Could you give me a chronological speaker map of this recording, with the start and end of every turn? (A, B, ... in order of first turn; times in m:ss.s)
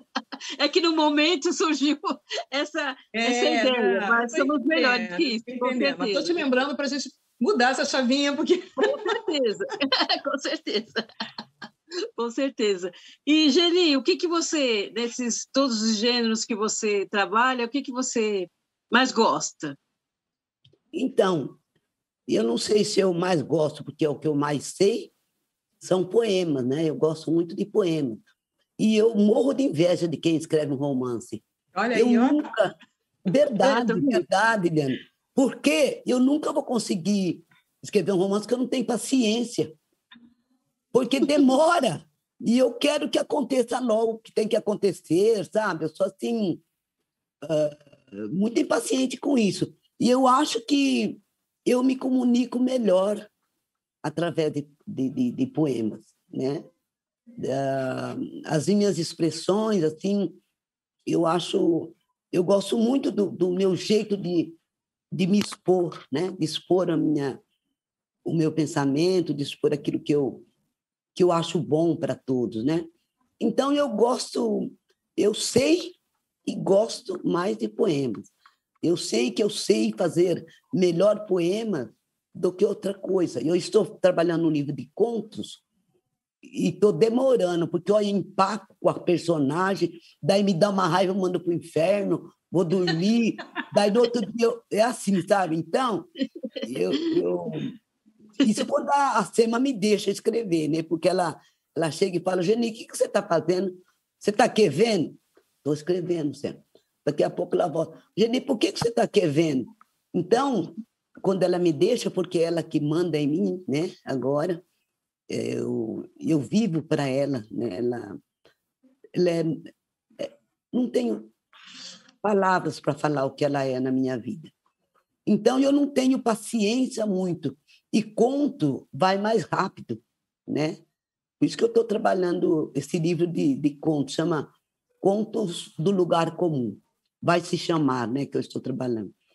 0:00.6-0:06.4 A
0:03.1-0:09.2 B
0:08.8-0:11.0 A
0:12.2-0:19.8 A
0:20.9-0:21.6 C
0:22.3-0:25.1 C
0:25.8-0:28.2 C
0:28.8-0:32.7 C
0:31.8-0:32.4 B
0:33.3-0:39.7 C
0:33.6-0:34.2 A
0:40.9-0:46.6 C
0:47.4-0:53.3 C
0:54.0-0:56.6 C
0:57.4-1:00.4 C
1:01.1-1:04.6 C
1:05.1-1:07.4 C
1:08.2-1:10.4 C
1:11.2-1:12.9 C
1:13.4-1:18.3 C
1:18.8-1:25.6 C
1:26.4-1:36.1 C
1:36.6-1:37.7 C
1:38.4-1:50.7 C
1:51.2-1:54.6 C
1:55.3-1:58.2 C
1:59.2-1:59.6 C
2:00.2-2:01.3 C
2:02.2-2:04.5 C
2:05.3-2:10.8 C
2:11.4-2:14.5 C
2:15.0-2:19.1 C